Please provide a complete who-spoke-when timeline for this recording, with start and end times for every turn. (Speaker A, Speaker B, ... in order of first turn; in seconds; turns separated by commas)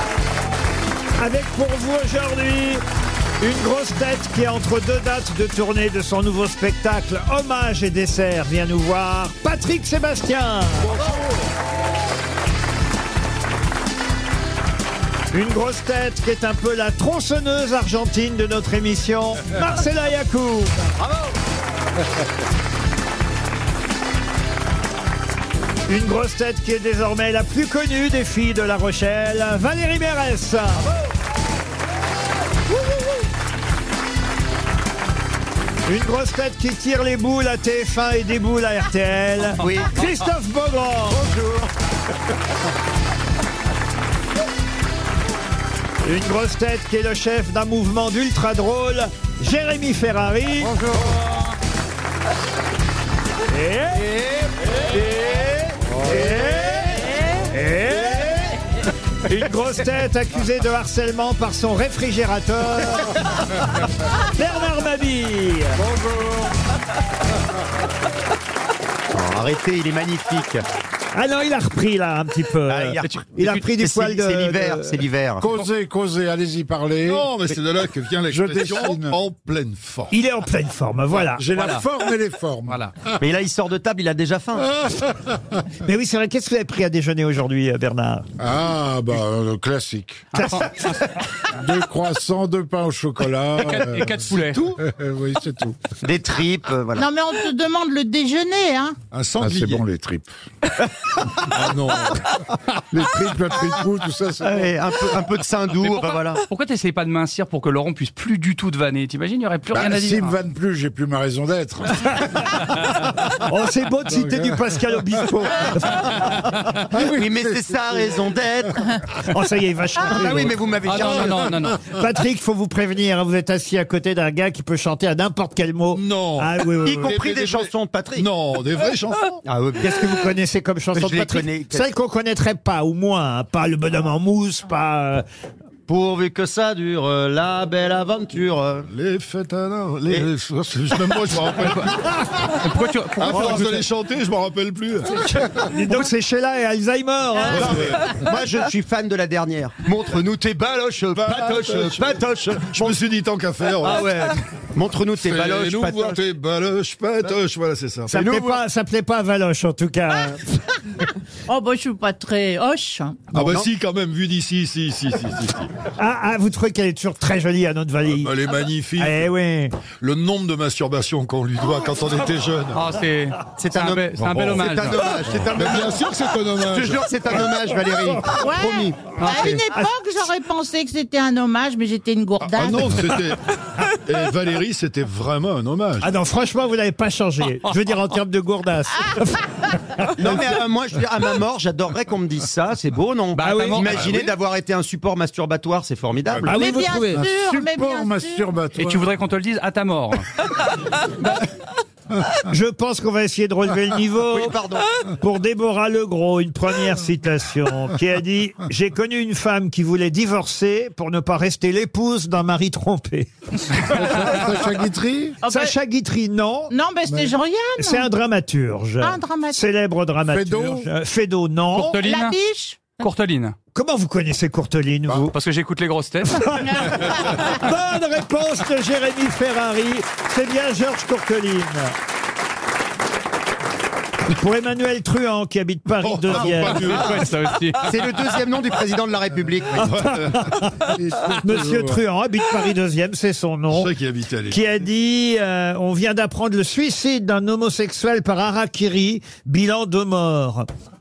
Speaker A: 1.2-2.8, Speaker A: 3.4-11.0, Speaker A: 15.3-20.9, Speaker A: 25.9-30.9, Speaker A: 35.9-41.2, Speaker B: 39.6-39.9, Speaker B: 41.1-41.7, Speaker A: 46.0-50.7, Speaker A: 53.5-54.0, Speaker A: 56.0-58.4, Speaker A: 59.2-63.6, Speaker A: 64.2-65.8, Speaker B: 69.1-70.6, Speaker A: 71.1-75.0, Speaker B: 72.7-75.5, Speaker C: 75.4-77.3, Speaker D: 77.0-80.1, Speaker C: 78.3-79.2, Speaker A: 80.1-81.5, Speaker C: 81.4-82.8, Speaker E: 81.5-81.8, Speaker E: 82.7-82.9, Speaker B: 83.2-84.7, Speaker C: 84.7-85.4, Speaker A: 85.8-88.3, Speaker C: 88.4-90.3, Speaker E: 90.3-91.0, Speaker A: 90.3-90.7, Speaker C: 91.5-95.8, Speaker E: 93.6-94.7, Speaker B: 96.0-97.0, Speaker F: 97.0-99.0, Speaker D: 99.1-99.8, Speaker C: 99.4-100.3, Speaker C: 101.6-102.2, Speaker D: 101.6-102.1, Speaker C: 102.9-104.7, Speaker B: 104.4-106.4, Speaker E: 105.8-110.3, Speaker C: 109.7-112.0, Speaker A: 113.5-116.0, Speaker C: 114.2-114.5, Speaker C: 116.9-118.0, Speaker B: 117.0-118.8, Speaker A: 119.3-120.6, Speaker B: 120.0-121.5, Speaker E: 120.8-121.8, Speaker A: 121.9-127.2, Speaker D: 125.9-129.4, Speaker B: 126.8-128.3, Speaker B: 129.4-130.3, Speaker A: 129.8-135.2, Speaker B: 130.9-131.9, Speaker B: 135.9-138.9, Speaker D: 138.9-142.1, Speaker E: 142.5-143.8, Speaker D: 143.2-145.7, Speaker A: 145.7-147.8, Speaker B: 147.5-153.0, Speaker D: 147.5-148.1, Speaker D: 151.1-154.2, Speaker B: 153.8-156.2, Speaker D: 155.1-158.4, Speaker A: 158.1-160.6, Speaker F: 161.5-163.3, Speaker D: 163.3-165.7, Speaker B: 163.3-163.7, Speaker A: 166.0-168.3, Speaker D: 168.2-169.3, Speaker A: 169.0-169.8, Speaker D: 170.0-172.8, Speaker E: 172.7-175.0, Speaker B: 173.6-176.1, Speaker D: 174.2-174.6, Speaker D: 175.1-177.1, Speaker B: 176.6-179.4, Speaker F: 178.4-183.0, Speaker E: 179.2-179.7, Speaker D: 182.4-183.4, Speaker D: 183.9-186.1, Speaker A: 186.0-190.4, Speaker B: 190.2-196.6, Speaker E: 193.3-193.8, Speaker A: 193.4-193.8, Speaker D: 194.0-194.2, Speaker A: 196.4-197.2, Speaker F: 196.5-198.4, Speaker C: 197.1-199.1, Speaker E: 198.8-200.3, Speaker A: 202.5-204.5, Speaker B: 204.3-204.9, Speaker A: 205.2-213.3, Speaker C: 213.9-215.4, Speaker E: 214.0-214.3, Speaker F: 215.4-215.7, Speaker A: 215.4-216.7, Speaker F: 216.7-218.1, Speaker A: 217.8-222.0, Speaker F: 219.0-219.6, Speaker C: 220.3-220.9, Speaker E: 221.7-222.4, Speaker F: 222.0-223.0, Speaker E: 223.0-223.5, Speaker A: 223.7-225.3, Speaker E: 225.3-226.6, Speaker A: 226.4-231.9, Speaker A: 234.3-237.1, Speaker D: 236.0-237.3, Speaker E: 236.6-237.9, Speaker B: 237.8-240.2, Speaker D: 239.8-241.8, Speaker A: 240.1-240.7, Speaker C: 241.0-242.0, Speaker A: 241.4-243.9, Speaker D: 243.7-244.6, Speaker A: 244.5-250.7